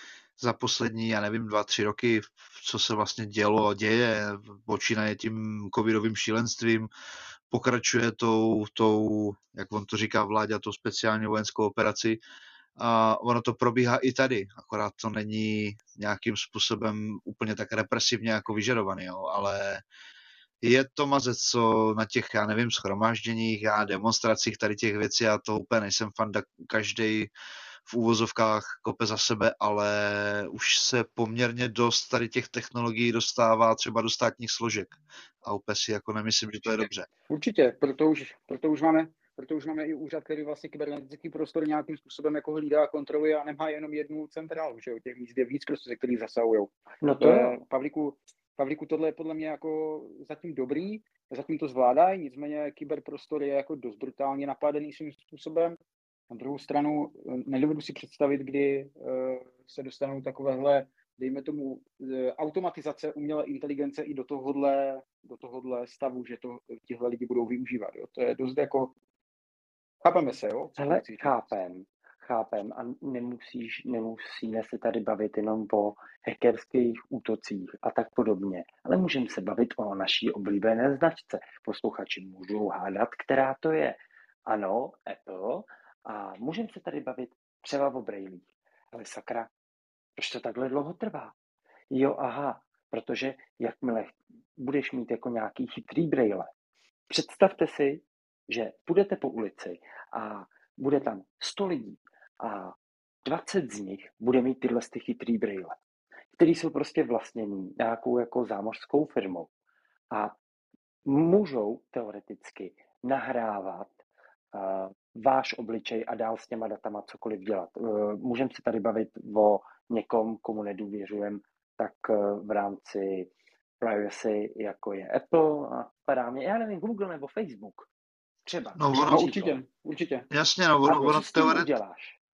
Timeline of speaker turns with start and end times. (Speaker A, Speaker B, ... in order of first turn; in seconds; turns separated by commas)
Speaker A: 0.4-6.9, Speaker A: 7.5-12.2, Speaker A: 12.8-19.8, Speaker A: 20.6-27.3, Speaker A: 27.9-37.1, Speaker B: 37.3-55.8, Speaker C: 47.0-47.6, Speaker B: 56.3-68.9, Speaker B: 70.0-71.4, Speaker C: 70.8-89.5, Speaker C: 90.2-91.3, Speaker C: 91.9-96.5, Speaker C: 97.1-105.8, Speaker C: 106.4-109.5, Speaker C: 110.1-110.4, Speaker C: 111.1-113.9, Speaker C: 114.5-127.9, Speaker C: 128.5-129.6, Speaker A: 128.8-129.4, Speaker B: 129.1-130.3, Speaker A: 130.3-131.7, Speaker C: 130.8-132.2